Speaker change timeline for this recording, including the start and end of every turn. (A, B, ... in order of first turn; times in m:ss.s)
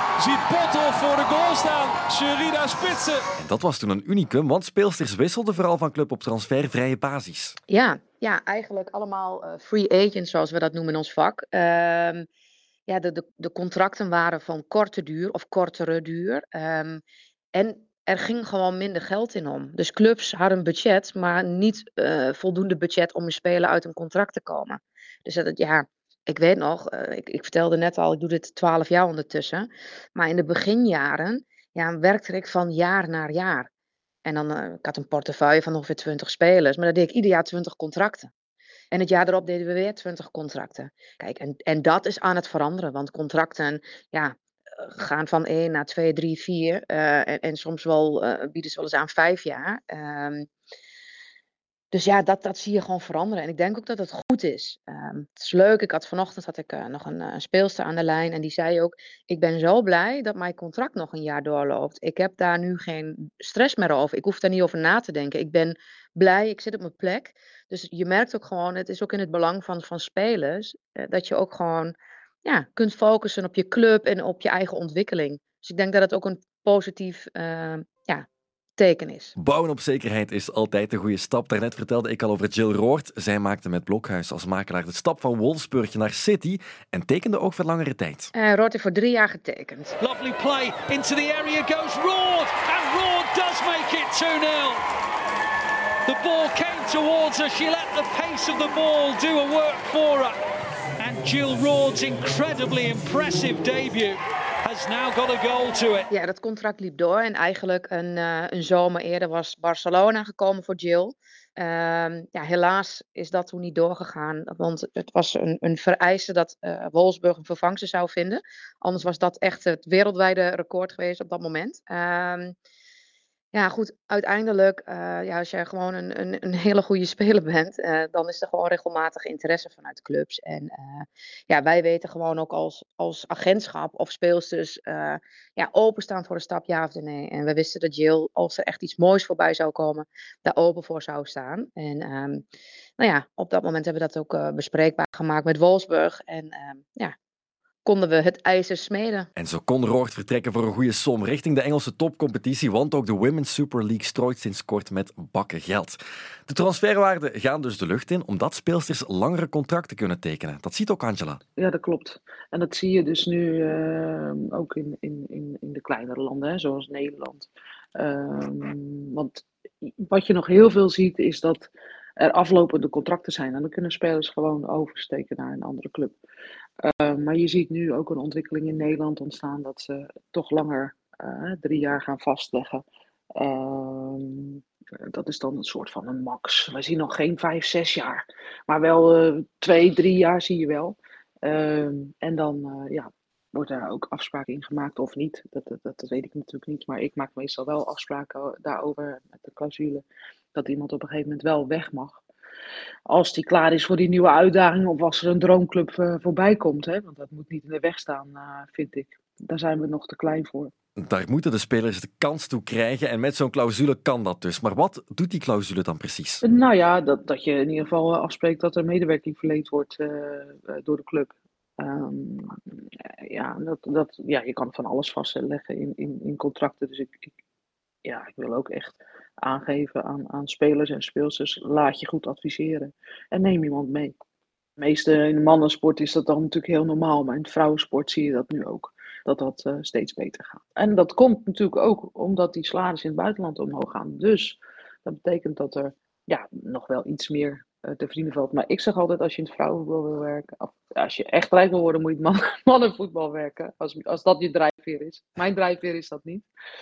0:00.2-0:03.2 A
0:03.4-0:07.6 B
0:07.7-0:12.2 C
0:12.9-0:17.0 C
0:17.5-0:33.7 C
0:34.2-0:38.3 C
0:38.9-0:50.5 C
0:51.9-1:18.2 C
1:18.8-1:19.3 C
1:19.4-1:28.3 B
1:28.3-1:29.9 C
1:30.0-1:34.8 D
1:36.0-1:40.4 D
1:41.0-1:46.1 D
1:46.1-2:02.5 C
2:03.5-2:22.4 C
2:23.0-2:27.1 C
2:27.8-2:29.3 C
2:29.4-2:41.4 B
2:41.6-2:56.2 E
2:56.8-3:02.8 E
3:03.3-3:22.2 E
3:23.1-3:30.7 E
3:31.0-3:36.4 B
3:36.4-3:42.6 E
3:43.1-3:47.3 E
3:48.0-3:54.2 E
3:54.8-4:16.5 E